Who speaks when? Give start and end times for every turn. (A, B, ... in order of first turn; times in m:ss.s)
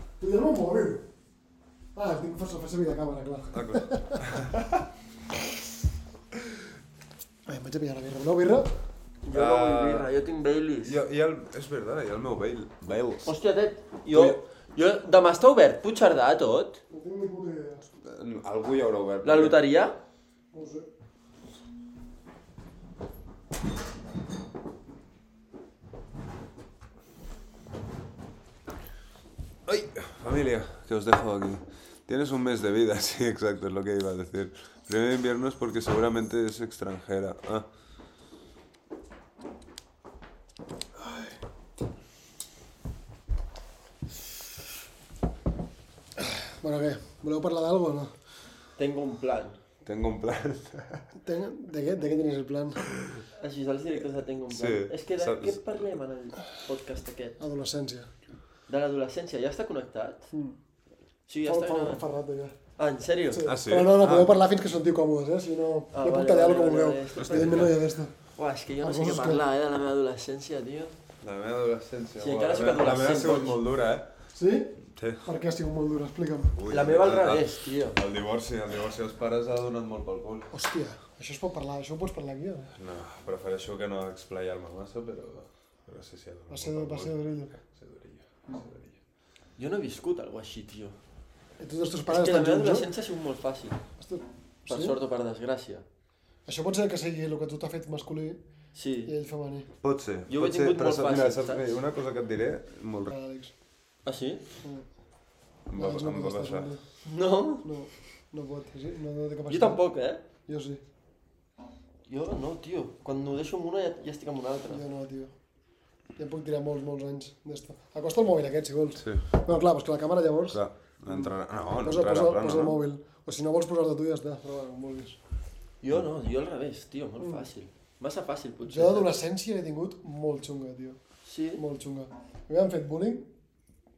0:00.2-0:01.0 A
0:01.9-0:04.2 A
0:03.5-0:04.8 B
0:07.5-0:08.7 A
0:09.2-0:11.0 C
0:09.3-0:10.1 B
0:10.8-0:13.3 B
0:13.2-0:16.8 C
0:14.1-0:14.4 B
0:16.9-0:17.9 A
0:18.0-0:19.6 B
0:19.2-0:20.0 C
0:20.5-0:20.9 A
0:29.6-0:37.7 B
0:46.2-0:48.1 A
0:48.8-0:49.6 C
0:49.8-0:51.0 B
0:51.2-0:52.8 A
0:52.8-0:53.2 B
0:53.4-0:57.4 C
0:54.5-0:55.9 B
0:57.4-0:58.1 A
0:58.7-1:00.3 C
1:01.3-1:02.0 C
1:01.4-1:02.6 A
1:02.8-1:03.4 C
1:03.3-1:08.1 A
1:03.4-1:04.4 B
1:05.9-1:07.8 C
1:07.2-1:07.7 B
1:08.4-1:11.0 C
1:08.8-1:09.4 A
1:11.2-1:14.1 B
1:12.2-1:13.6 C
1:14.3-1:16.5 A
1:14.9-1:15.2 B
1:16.5-1:20.5 B
1:16.7-1:18.0 C
1:20.5-1:22.7 A
1:22.7-1:29.0 B
1:26.5-1:27.5 A
1:29.6-1:31.0 C
1:31.6-1:32.9 A
1:32.1-1:33.8 C
1:34.0-1:35.0 A
1:34.7-1:35.8 C
1:36.4-1:38.4 A
1:38.7-1:39.1 C
1:39.0-1:39.7 A
1:39.8-1:43.1 B
1:40.3-1:41.7 C
1:43.1-1:43.5 A
1:44.0-1:44.4 C
1:45.7-1:46.7 B
1:45.7-1:46.8 A
1:47.0-1:47.7 C
1:47.6-1:49.8 A
1:49.5-1:50.2 C
1:50.5-1:50.8 A
1:52.1-1:54.8 C
1:54.7-1:55.3 A
1:56.2-2:01.3 A
1:59.0-1:59.3 B
2:00.5-2:02.8 B
2:01.8-2:05.2 A
2:05.8-2:09.2 C
2:07.2-2:07.5 A
2:08.6-2:11.0 A
2:11.2-2:11.6 C
2:11.6-2:13.3 A